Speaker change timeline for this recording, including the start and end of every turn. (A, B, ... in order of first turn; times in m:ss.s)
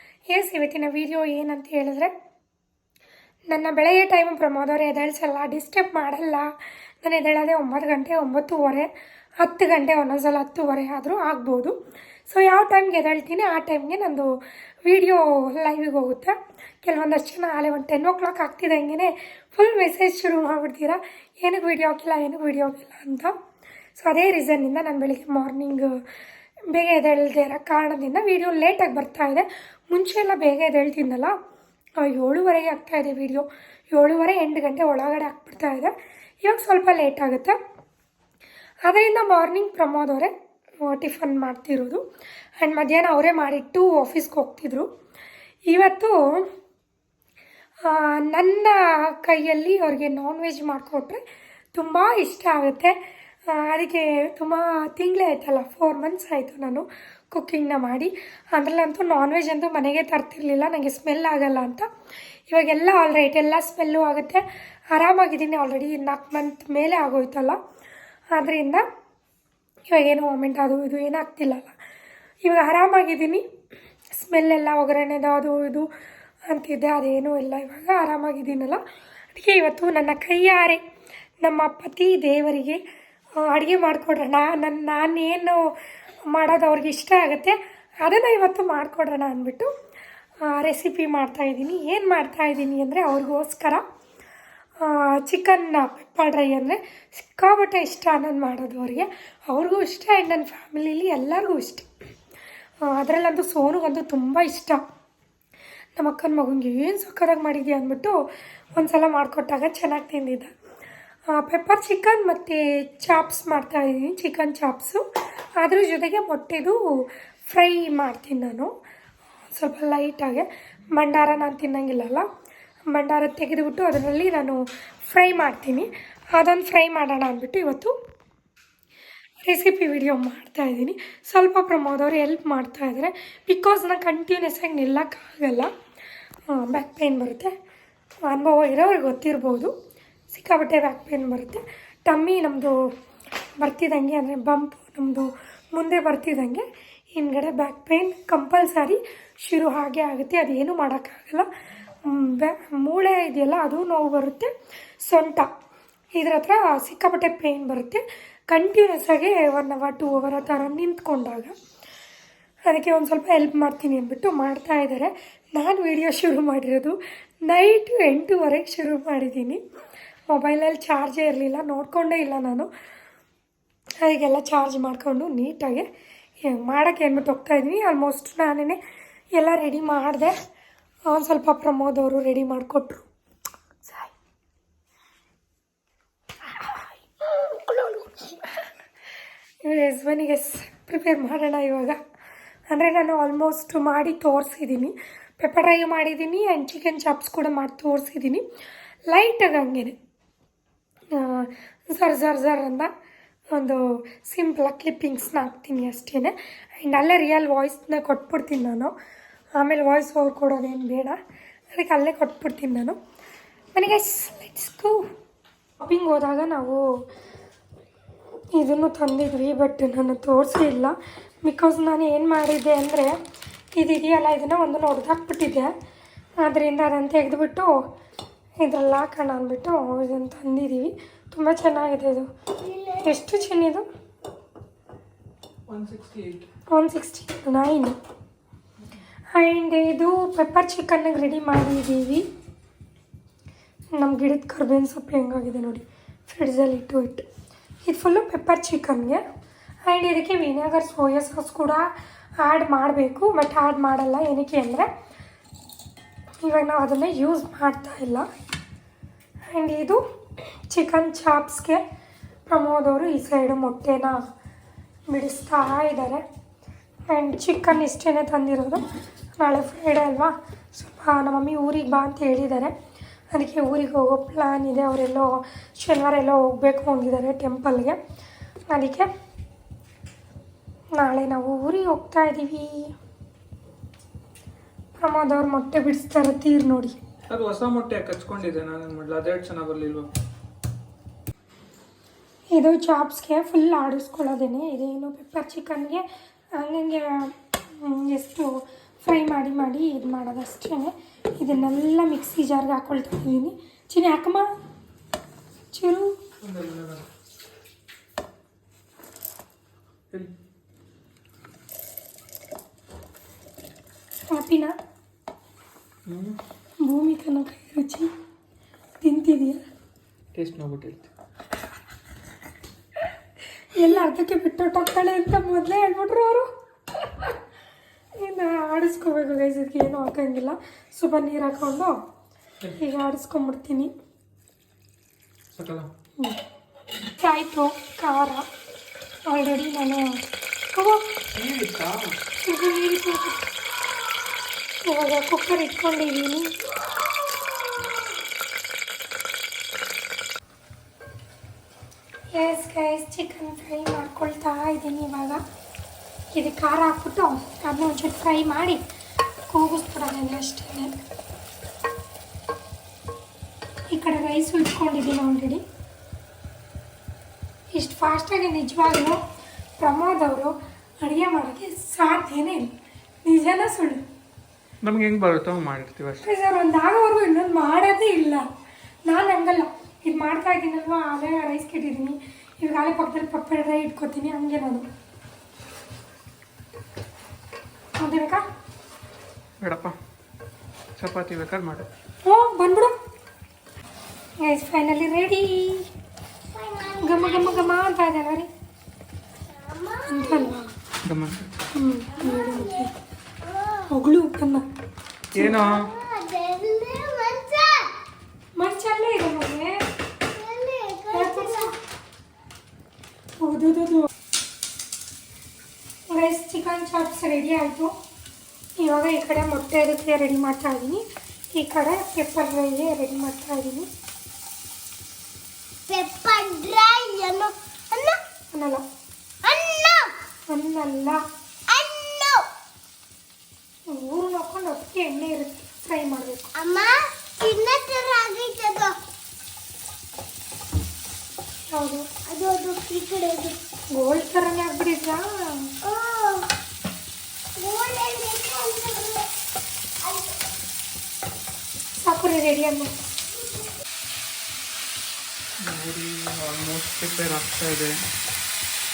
0:00.3-0:02.1 A
0:03.5-0:08.9 A
0:09.4-0:11.8 A
0:12.3-0:23.3 A
0:24.0-0:26.0 A
0:26.7-0:31.4 A
0:32.0-0:37.6 A
0:38.8-0:42.0 A
0:42.6-0:44.9 A
0:45.7-0:46.5 A
0:47.8-0:51.2 A
0:51.7-0:53.0 A
0:53.5-1:01.9 A
1:02.5-1:07.6 A
1:08.3-1:08.8 A
1:09.9-1:11.7 A
1:12.4-1:13.4 A
1:14.1-1:15.9 A
1:16.5-1:18.8 A
1:19.3-1:20.8 A
1:21.4-1:22.8 A
1:23.4-1:29.7 A
1:30.4-1:33.8 A
1:34.8-1:41.9 A
1:42.8-1:44.8 A
1:46.0-1:48.2 A
1:48.8-1:50.5 A
1:51.3-1:55.0 A
1:55.6-1:58.7 A
1:59.5-2:02.3 A
2:02.9-2:08.0 A
2:09.4-2:15.7 A
2:16.5-2:17.5 A
2:18.2-2:19.7 A
2:20.3-2:22.9 A
2:23.6-2:31.5 A
2:32.0-2:35.5 A
2:36.2-2:41.5 A
2:42.7-2:49.6 A
2:50.3-2:52.7 A
2:54.0-2:55.9 A
2:56.4-2:58.8 A
2:59.4-3:00.3 A
3:01.1-3:03.1 A
3:03.8-3:04.1 A
3:07.5-3:08.0 A
3:09.6-3:12.0 A
3:12.7-3:18.4 A
3:19.1-3:20.0 A
3:21.1-3:22.9 A
3:23.5-3:28.9 A
3:29.6-3:31.2 A
3:31.7-3:33.0 A
3:33.7-3:35.1 A
3:35.8-3:36.8 A
3:38.5-3:43.2 A
3:43.8-3:45.7 A
3:46.4-3:47.7 A
3:48.6-3:52.3 A
3:52.6-3:53.1 B
3:53.0-3:53.8 A
3:55.7-3:56.5 C
3:56.7-3:58.0 A
3:59.3-4:02.3 A
4:03.9-4:07.2 A
4:07.8-4:09.2 A
4:09.9-4:14.9 A
4:16.4-4:18.3 A
4:19.5-4:20.0 A
4:20.7-4:21.8 A
4:22.5-4:24.2 A
4:25.1-4:26.2 A
4:27.1-4:28.8 A
4:29.4-4:32.7 A
4:33.3-4:38.0 A
4:38.7-4:39.1 A
4:41.0-4:42.9 A
4:45.0-4:47.0 A
4:47.3-4:50.1 C
4:52.5-4:56.0 A
4:56.6-5:04.5 A
5:05.7-5:06.2 A
5:06.4-5:07.1 C
5:14.3-5:14.8 A
5:16.1-5:16.4 C
5:16.8-5:18.1 A
5:19.0-5:19.6 A
5:20.3-5:21.1 C
5:23.8-5:26.5 A
5:27.0-5:27.3 A
5:28.2-5:32.0 A
5:32.8-5:33.9 A
5:35.6-5:35.9 C
5:37.2-5:38.5 A
5:39.3-5:41.0 A
5:41.3-5:42.1 C
5:42.4-5:43.5 A
5:44.8-5:46.6 A
5:52.3-5:55.4 A
5:56.3-5:58.8 A
5:59.5-6:00.9 A
6:03.9-6:05.6 A
6:07.7-6:09.2 A
6:09.8-6:12.7 A
6:13.2-6:14.0 A
6:14.8-6:16.3 C
6:16.2-6:18.5 A
6:19.1-6:24.8 A
6:28.0-6:28.4 A
6:29.6-6:30.0 C
6:31.0-6:31.9 C
6:32.2-6:33.0 A
6:34.4-6:35.9 A
6:36.5-6:37.7 B
6:37.0-6:38.5 A
6:39.5-6:40.6 B
6:40.1-6:40.7 A
6:41.0-6:41.5 C
6:41.7-6:42.9 A
6:42.1-6:42.9 B
6:43.4-6:43.9 B
6:43.9-6:44.6 A
6:45.3-6:45.9 C
6:45.4-6:47.9 B
6:48.6-6:49.8 A
6:50.3-6:51.7 B
6:51.1-6:51.7 A
6:53.4-6:54.1 A
6:56.1-6:57.9 A
6:58.8-7:03.9 A
7:05.9-7:08.2 B
7:08.5-7:08.8 A
7:09.4-7:10.1 B
7:10.5-7:11.2 A
7:11.7-7:12.4 B
7:13.9-7:16.5 A
7:16.6-7:19.0 B
7:21.7-7:22.1 A
7:22.3-7:23.6 B
7:23.9-7:25.7 A
7:25.8-7:26.5 B
7:27.6-7:29.3 B
7:30.0-7:30.4 B
7:32.0-7:32.9 A
7:35.6-7:38.0 C